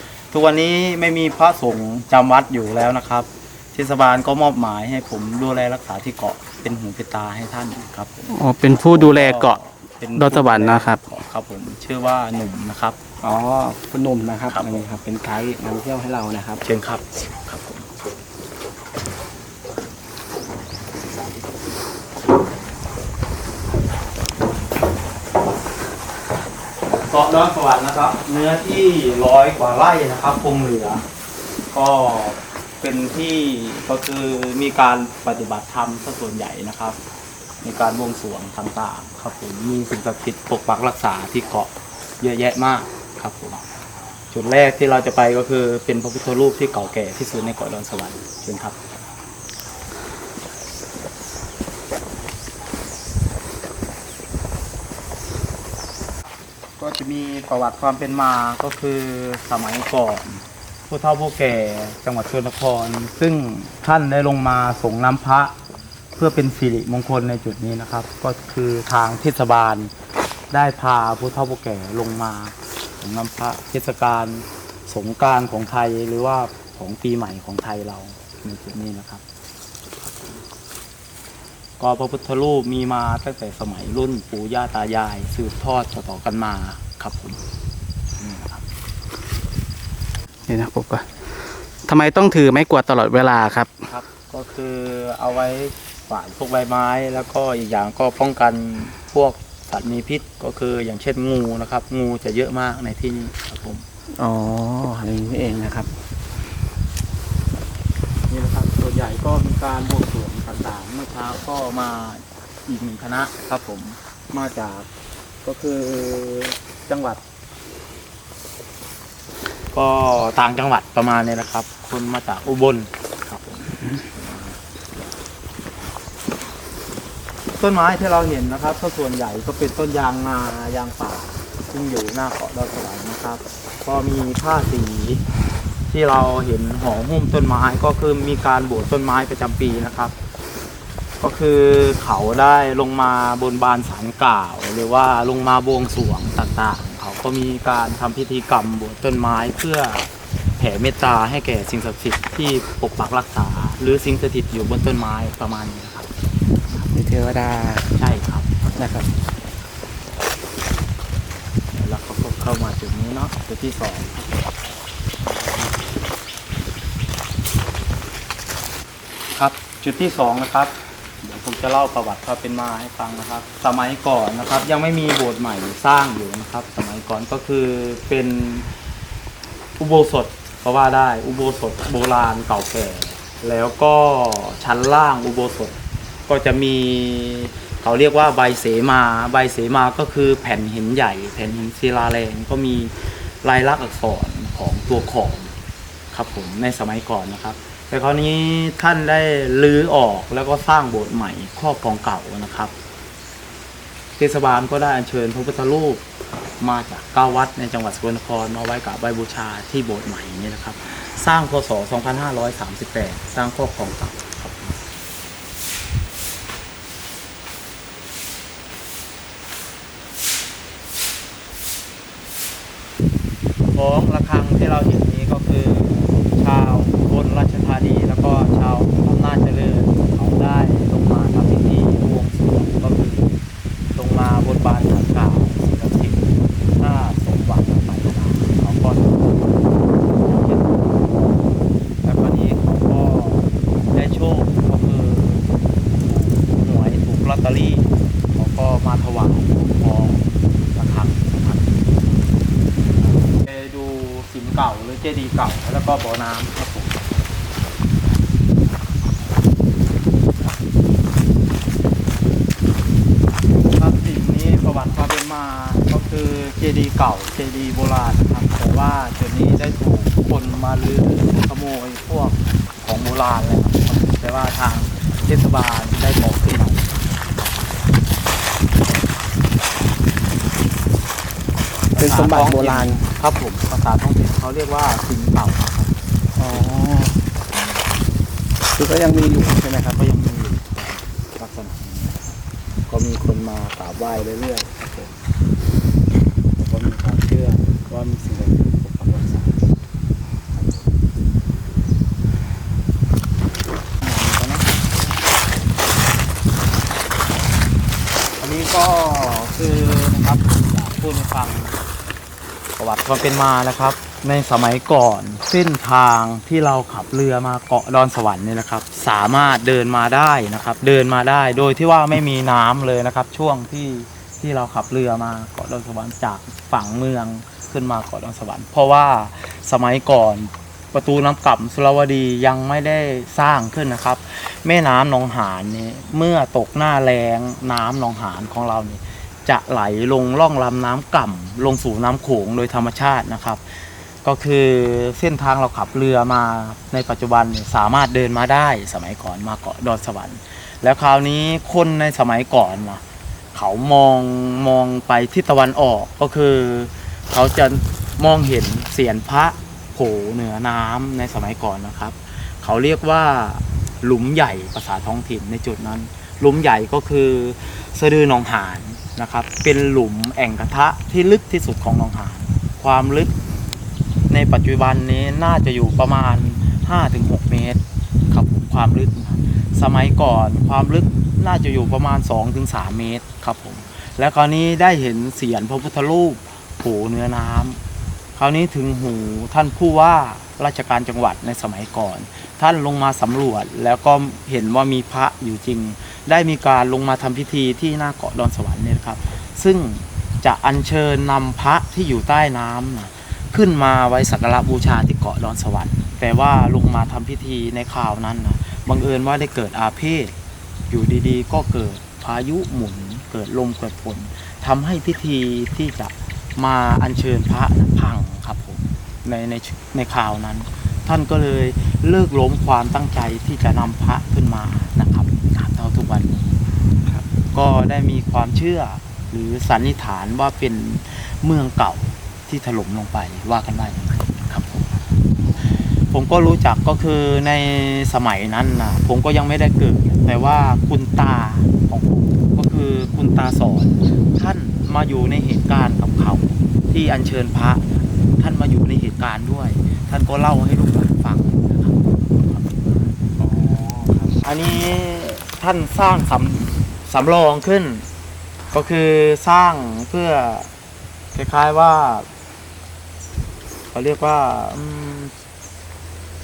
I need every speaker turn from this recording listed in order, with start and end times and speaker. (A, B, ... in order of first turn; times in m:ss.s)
0:00.3-0:13.0 A
0:08.3-0:09.6 B
0:10.2-0:11.0 B
0:13.2-0:16.6 C
0:14.5-0:14.9 A
0:16.6-0:17.9 A
0:27.0-0:31.0 A
0:31.7-0:37.0 A
0:37.6-0:43.6 A
0:44.3-0:48.9 A
0:56.8-1:05.6 A
1:06.2-1:09.9 A
1:10.5-1:19.2 A
1:21.8-1:27.4 A
1:28.2-1:28.6 A
1:30.5-1:31.1 B
1:31.9-1:33.7 B
1:33.9-1:43.8 A
1:44.1-1:45.9 C
1:48.3-1:54.9 A
1:55.4-1:57.2 A
1:59.7-2:04.6 A
2:07.6-2:15.2 A
2:15.9-2:20.2 A
2:21.2-2:30.1 A
2:30.6-2:36.1 A
2:36.9-2:37.9 C
2:38.0-2:38.7 A
2:38.8-2:39.1 C
2:41.8-2:44.4 A
2:45.2-2:45.8 A
2:49.4-2:58.7 A
2:59.8-3:15.5 A
3:16.1-3:22.7 A
3:24.2-3:26.0 A
3:26.6-3:34.8 A
3:43.8-3:53.2 A
3:54.0-4:01.5 A
4:02.0-4:05.5 A
4:06.0-4:12.2 A
4:13.0-4:17.1 A
4:23.7-4:37.2 A
4:41.9-4:45.9 A
4:42.0-4:43.0 C
4:46.4-4:47.2 C
4:47.5-4:47.8 A
4:48.8-4:50.0 C
4:49.8-4:55.1 A
4:56.6-4:59.7 A
5:00.5-5:01.0 A
5:04.0-5:04.7 A
5:08.4-5:11.8 A
5:12.8-5:43.6 A
5:44.2-5:53.0 A
5:53.5-6:13.4 A
6:14.3-6:27.8 A
6:28.4-6:50.3 A
6:50.9-7:06.6 A
7:07.5-7:15.0 A
7:16.1-7:33.2 A
7:33.4-7:34.4 C
7:34.4-7:38.1 A
7:38.7-7:40.7 A
7:41.3-7:42.3 A
7:43.9-7:45.3 A